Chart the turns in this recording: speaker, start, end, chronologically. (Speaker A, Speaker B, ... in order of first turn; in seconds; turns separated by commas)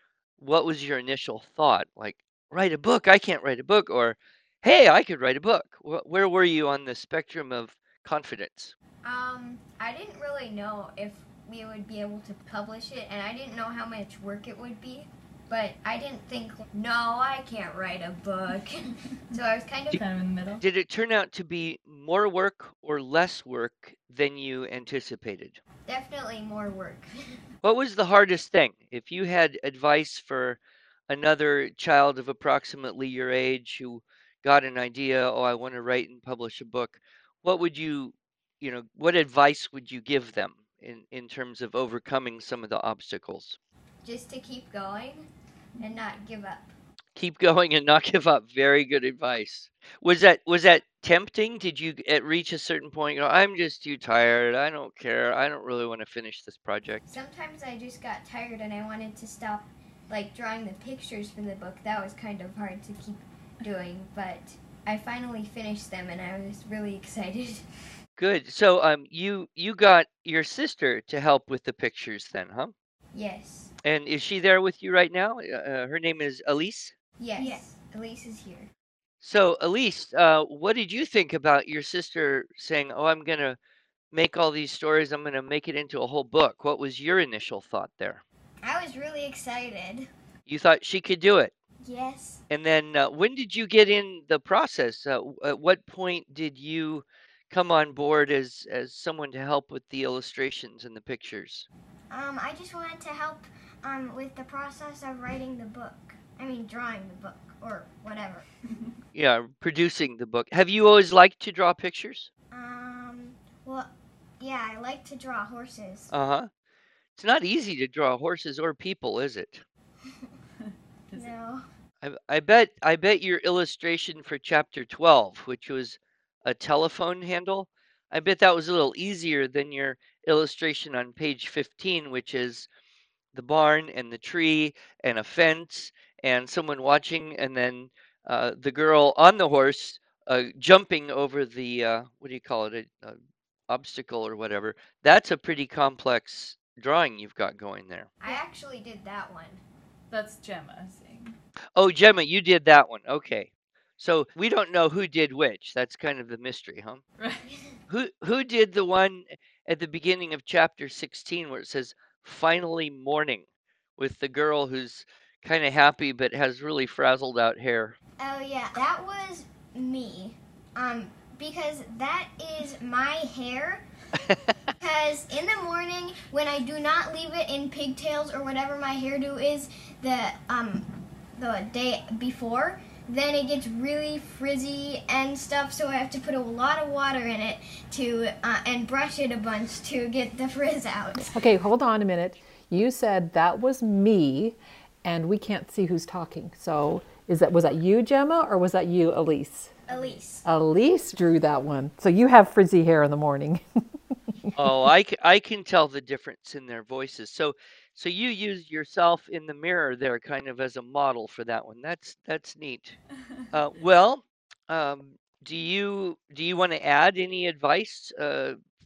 Speaker A: 0.4-8.7, Speaker B: 9.0-20.0, Speaker C: 19.9-20.6, Speaker A: 20.6-25.6, Speaker B: 25.9-27.4, Speaker A: 27.6-43.6, Speaker B: 44.0-45.3, Speaker B: 45.8-46.7, Speaker A: 47.1-57.0, Speaker B: 57.1-67.6, Speaker A: 68.2-72.7, Speaker B: 73.1-73.7, Speaker A: 73.8-76.9, Speaker B: 77.2-78.7, Speaker C: 77.4-77.6, Speaker A: 79.2-83.6, Speaker A: 84.1-88.2, Speaker B: 88.6-90.1, Speaker A: 90.5-91.5, Speaker B: 91.8-92.4, Speaker A: 92.5-101.7, Speaker B: 102.1-108.5, Speaker A: 109.1-112.3, Speaker B: 112.5-116.1, Speaker A: 116.1-116.5, Speaker A: 117.2-119.6, Speaker B: 120.0-120.3, Speaker B: 121.1-121.6, Speaker A: 122.0-132.7, Speaker A: 133.3-143.2, Speaker A: 143.7-148.1, Speaker B: 148.2-149.6, Speaker C: 150.1-151.3, Speaker A: 151.8-157.0, Speaker C: 157.2-157.5, Speaker B: 157.5-157.7, Speaker A: 157.9-163.4, Speaker A: 164.0-167.9, Speaker B: 168.2-173.8, Speaker A: 174.2-174.5, Speaker B: 174.8-191.3, Speaker D: 191.2-199.8, Speaker B: 199.9-200.4, Speaker D: 200.4-203.6, Speaker D: 204.3-204.5, Speaker A: 204.5-213.0, Speaker A: 213.5-218.6